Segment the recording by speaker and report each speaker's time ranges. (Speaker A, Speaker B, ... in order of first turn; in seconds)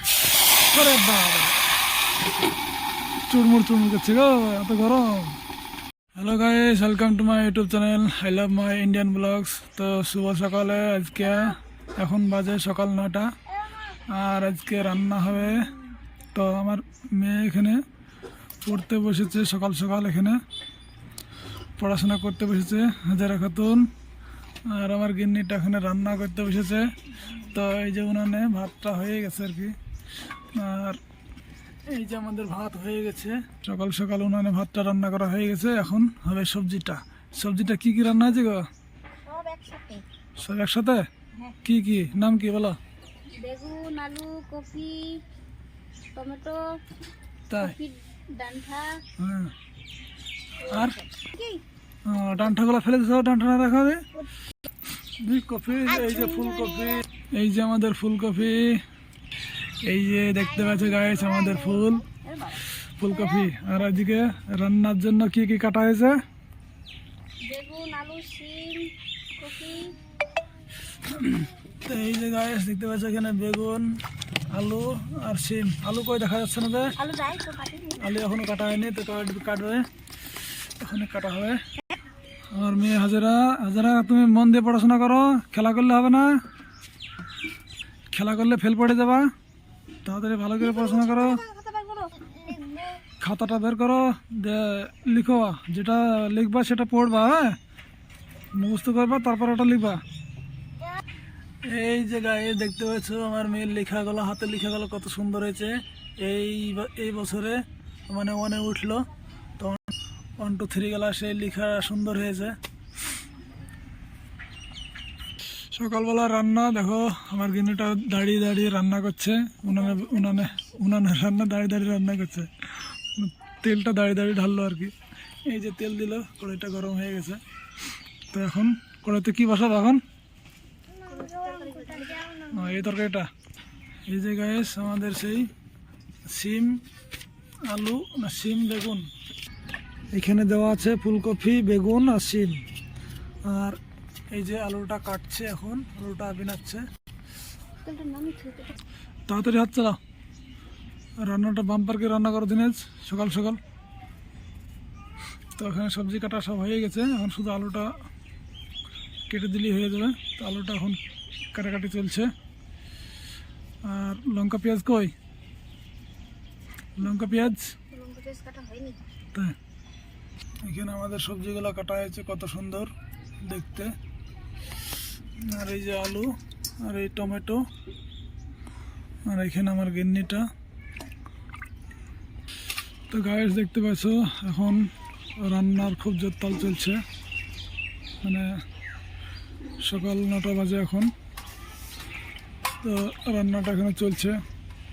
Speaker A: 0.7-1.6, 3.3-5.4, 6.1-13.3, 13.8-15.7, 16.3-17.8, 18.6-20.4, 21.8-23.9, 24.7-29.7, 30.5-31.0, 31.9-38.6, 40.4-42.8, 47.5-47.7, 49.2-49.5, 50.6-51.0, 52.0-54.0, 55.2-58.8, 59.8-62.0, 62.7-66.2, 71.0-73.9, 74.5-77.0, 78.0-79.8, 80.8-81.6, 82.5-86.3, 88.1-89.2, 90.0-91.4, 93.2-97.5, 98.5-100.0, 101.7-109.0, 109.6-109.9, 110.4-112.6, 115.7-124.9, 125.4-127.4, 128.3-130.0, 132.5-133.2, 134.1-135.5, 136.3-136.8, 137.7-139.1, 140.1-142.6, 143.4-143.8, 144.3-146.8, 149.3-150.0, 151.2-153.6, 155.6-157.9, 159.3-161.0, 161.5-162.3, 163.8-165.1, 167.0-167.7, 170.6-173.9, 175.4-176.3, 176.8-177.6, 179.2-180.4, 183.1-187.0, 188.2-188.5, 189.8-191.1, 192.8-194.4
Speaker B: 39.2-40.0, 43.3-45.2, 46.1-46.6, 47.6-49.0, 50.8-51.6, 62.0-62.6, 63.1-63.6, 67.4-69.9, 77.0-78.0, 90.6-93.0, 119.9-120.5, 131.1-132.6, 147.8-148.8, 167.0-169.0